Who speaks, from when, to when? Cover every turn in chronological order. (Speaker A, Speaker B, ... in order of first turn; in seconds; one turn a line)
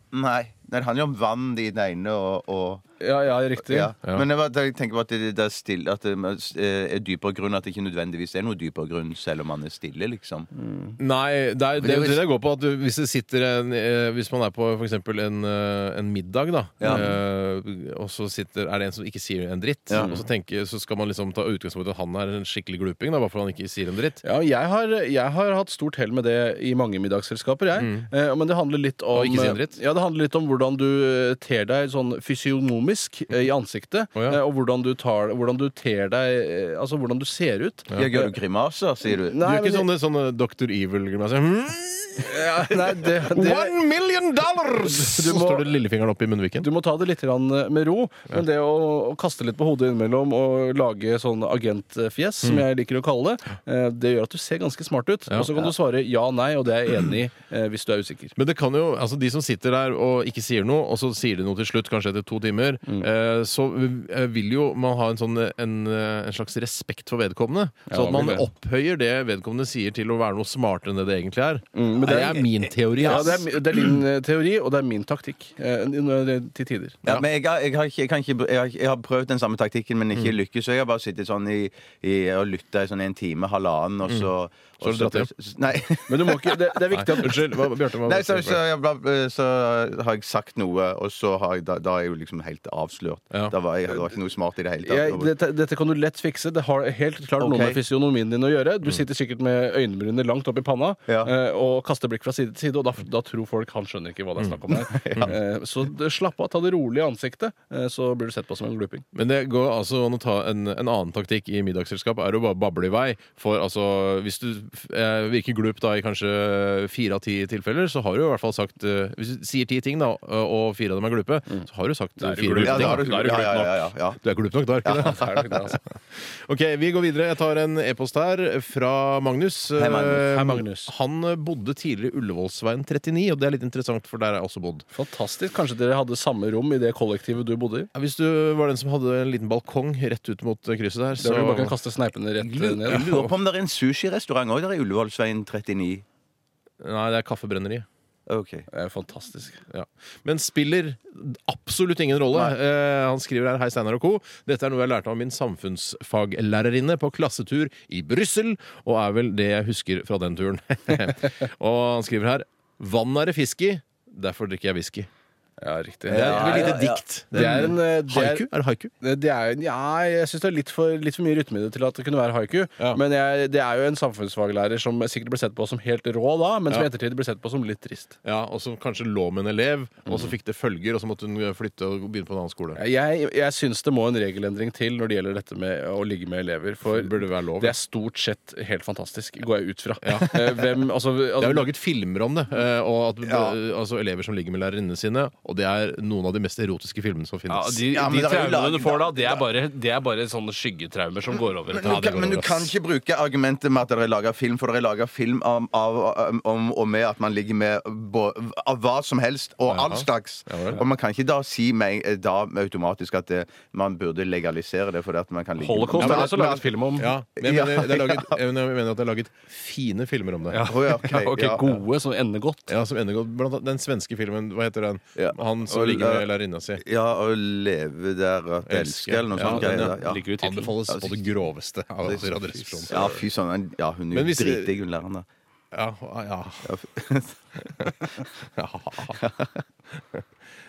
Speaker A: 0.1-2.8
Speaker B: 3.0-3.9
Speaker A: 3.6-10.5
Speaker B: 10.5-11.0
Speaker C: 11.0-24.2
Speaker A: 11.8-12.2
Speaker A: 16.8-17.1
Speaker A: 19.9-20.2
Speaker B: 19.9-20.2
Speaker B: 24.2-38.3
Speaker C: 27.8-28.1
Speaker C: 29.1-29.8
Speaker A: 37.9-39.4
Speaker B: 39.1-39.9
Speaker C: 39.4-46.7
Speaker B: 42.2-43.8
Speaker B: 44.8-45.7
Speaker B: 46.6-58.3
Speaker C: 55.3-55.7
Speaker C: 58.4-73.5
Speaker B: 67.9-68.5
Speaker B: 71.7-77.0
Speaker A: 73.0-73.4
Speaker A: 77.0-86.6
Speaker C: 84.0-84.3
Speaker C: 84.8-85.3
Speaker B: 86.1-87.6
Speaker C: 86.9-88.6
Speaker A: 88.0-95.3
Speaker B: 94.8-109.0
Speaker A: 97.4-97.8
Speaker A: 104.7-105.3
Speaker C: 109.1-123.5
Speaker B: 122.2-123.8
Speaker A: 122.6-124.2
Speaker C: 124.2-134.8
Speaker A: 124.8-125.5
Speaker B: 125.0-125.8
Speaker A: 129.8-130.6
Speaker B: 130.4-130.9
Speaker B: 134.9-137.9
Speaker C: 137.9-141.8
Speaker B: 141.2-143.3
Speaker A: 142.4-146.0
Speaker C: 142.9-143.2
Speaker C: 146.8-147.8
Speaker A: 148.3-148.7
Speaker B: 148.7-149.6
Speaker C: 149.7-165.1
Speaker B: 165.6-166.8
Speaker A: 166.1-167.0
Speaker C: 166.1-168.9
Speaker B: 167.3-168.5
Speaker B: 169.0-178.2
Speaker C: 178.2-182.8
Speaker B: 180.1-180.3
Speaker B: 182.7-191.7
Speaker C: 186.8-187.8
Speaker C: 190.0-190.4
Speaker C: 191.4-197.8
Speaker A: 193.2-193.6
Speaker B: 197.5-202.1
Speaker A: 197.9-199.4
Speaker A: 201.7-216.7
Speaker C: 201.8-202.7
Speaker C: 209.7-210.8
Speaker B: 215.6-217.1
Speaker C: 215.9-220.7
Speaker A: 217.4-218.4
Speaker B: 220.5-222.7
Speaker A: 220.7-221.8
Speaker C: 222.7-226.8
Speaker A: 225.2-226.2
Speaker A: 226.8-230.3
Speaker C: 228.7-233.2
Speaker B: 229.4-230.8
Speaker A: 230.9-231.2
Speaker A: 232.0-235.2
Speaker C: 234.1-234.8
Speaker C: 235.7-236.7
Speaker A: 236.6-237.4
Speaker C: 237.6-239.2
Speaker A: 239.1-239.6